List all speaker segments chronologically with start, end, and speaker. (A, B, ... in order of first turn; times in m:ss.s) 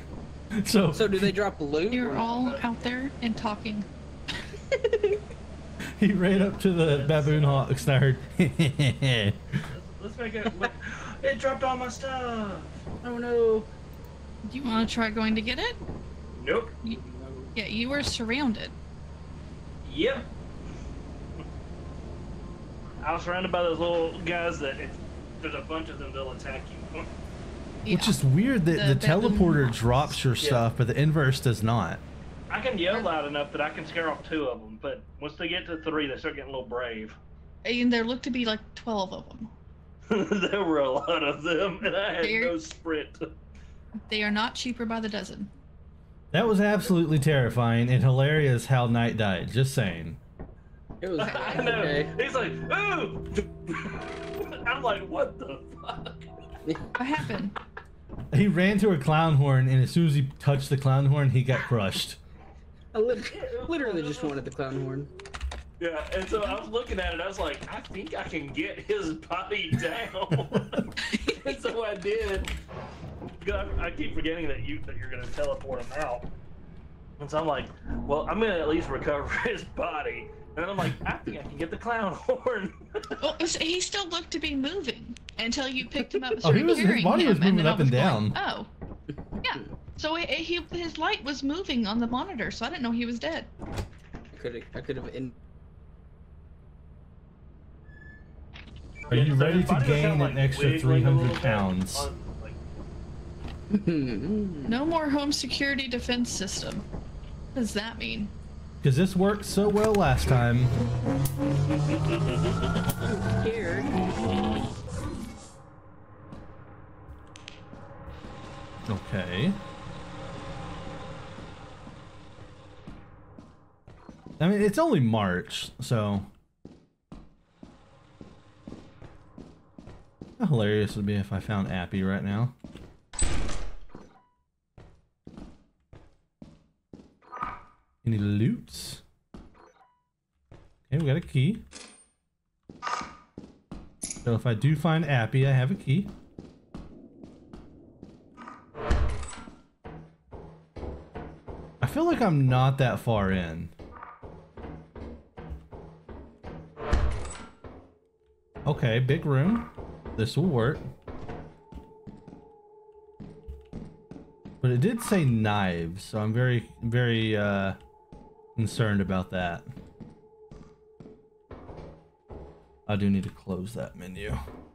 0:00.6-0:01.3 A
0:00.9-0:02.4 B
0:01.9-0:03.9 C
0:02.4-0:02.6 D
0:04.7-0:05.2 B
0:06.0-0:09.4 A
0:06.3-0:07.7 D
0:09.7-0:12.8 D
0:13.0-0:13.7 B
0:14.4-0:15.8 C
0:16.3-0:16.7 D
0:16.8-0:17.5 B
0:17.5-0:18.7 C
0:19.8-0:20.3 D
0:23.0-0:27.1 D
0:27.8-0:30.2 C
0:27.9-0:32.0 A
0:30.4-0:30.6 D
0:32.5-0:37.2 D
0:37.6-0:39.5 C
0:40.1-0:43.3 D
0:42.2-0:42.6 C
0:44.1-0:45.5 C
0:46.3-0:50.2 A
0:51.0-0:52.1 B
0:51.2-0:56.3 D
0:51.4-0:51.8 C
0:57.0-0:57.6 C
0:58.3-1:02.2 A
1:02.9-1:05.1 B
1:03.3-1:04.4 D
1:05.8-1:12.5 D
1:13.4-1:16.3 D
1:17.2-1:23.2 D
1:23.2-1:28.7 C
1:26.4-1:28.4 A
1:29.4-1:33.5 C
1:34.3-1:35.3 B
1:39.0-1:42.6 D
1:39.1-1:42.1 A
1:43.7-1:44.8 B
1:44.7-1:46.9 C
1:47.5-1:48.3 C
1:48.8-1:50.7 A
1:53.0-1:53.9 B
1:58.9-1:59.6 A
2:04.4-2:06.3 A
2:10.4-2:12.5 A
2:18.0-2:19.0 A
2:20.9-2:21.6 A
2:24.2-2:26.1 A
2:31.8-2:33.7 A
2:38.6-2:40.8 A
2:44.6-2:47.8 A
2:48.6-2:49.7 A
2:52.9-2:54.4 A